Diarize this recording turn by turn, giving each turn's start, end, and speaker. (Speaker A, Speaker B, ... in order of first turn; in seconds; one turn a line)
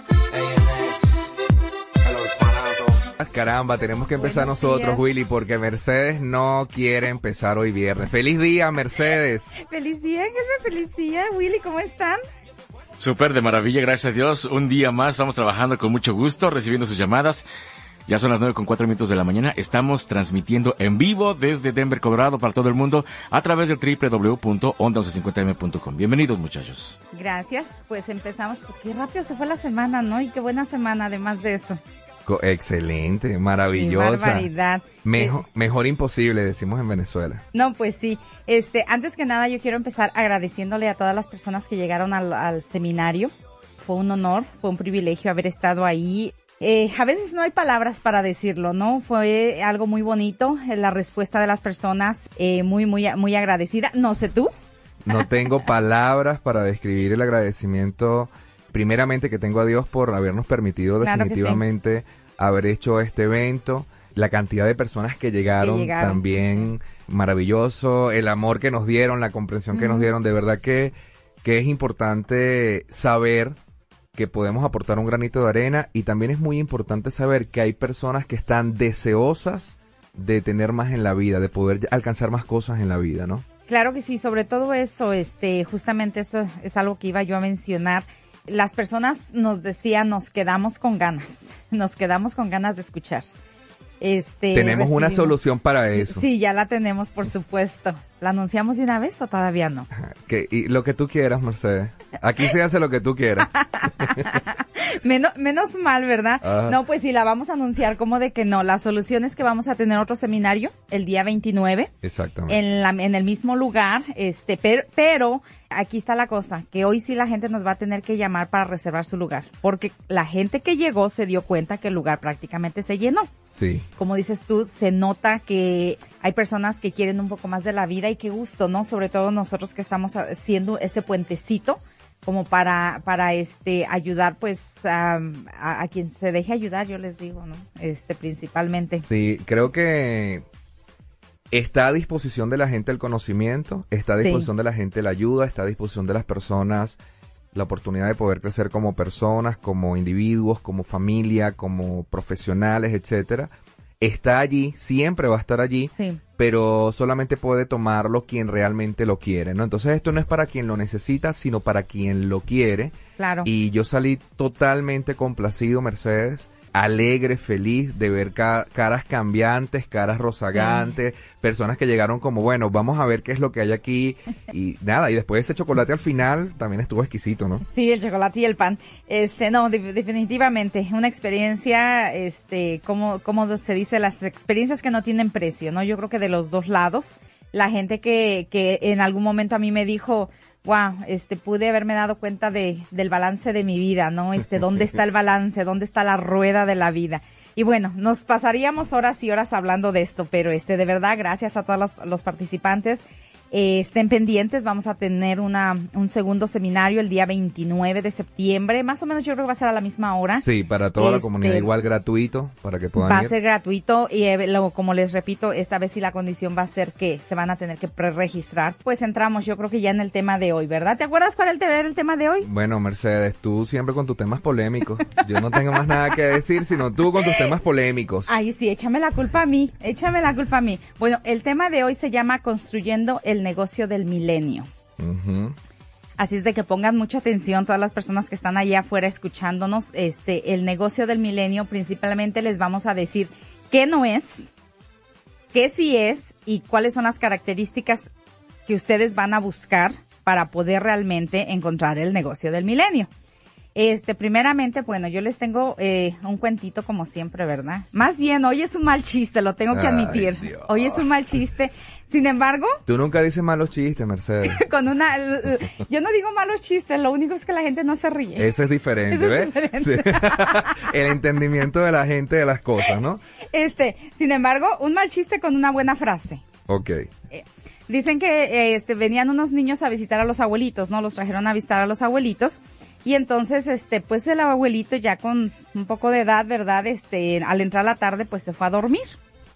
Speaker A: 3.1-9.5
Speaker B: 4.2-5.0
Speaker B: 9.6-12.2
Speaker C: 13.0-17.4
Speaker C: 18.1-27.0
Speaker B: 27.1-31.8
Speaker A: 32.2-34.5
Speaker B: 33.7-35.4
Speaker A: 35.0-37.4
Speaker B: 37.5-54.5
Speaker A: 55.0-73.5
Speaker B: 61.0-61.6
Speaker B: 65.6-66.3
Speaker B: 69.7-70.1
Speaker A: 74.1-83.4
Speaker B: 83.7-93.3
Speaker B: 94.0-95.4
Speaker A: 94.5-96.2
Speaker B: 95.9-99.9
Speaker A: 99.9-104.4
Speaker B: 103.5-111.9
Speaker A: 106.4-106.8
Speaker A: 112.0-112.6
Speaker B: 112.5-123.3
Speaker A: 123.5-123.8
Speaker B: 124.0-139.0
Speaker A: 139.0-140.4
Speaker A: 141.5-147.0
Speaker B: 144.2-144.5
Speaker A: 147.5-177.6
Speaker B: 155.9-156.2
Speaker B: 163.2-163.5
Speaker B: 170.5-170.9
Speaker B: 177.6-210.4
Speaker A: 210.4-213.3
Speaker B: 211.0-211.7
Speaker B: 212.9-222.5
Speaker A: 222.4-228.3
Speaker B: 225.1-226.2
Speaker B: 228.3-234.7
Speaker A: 235.0-235.5
Speaker B: 236.2-244.5
Speaker B: 245.5-248.1
Speaker B: 248.7-253.1
Speaker B: 253.7-262.8
Speaker A: 259.7-261.2
Speaker A: 262.9-264.6
Speaker B: 264.4-268.5
Speaker A: 268.4-273.2
Speaker B: 269.1-271.0
Speaker B: 273.5-276.4
Speaker A: 276.7-277.1
Speaker B: 277.3-289.2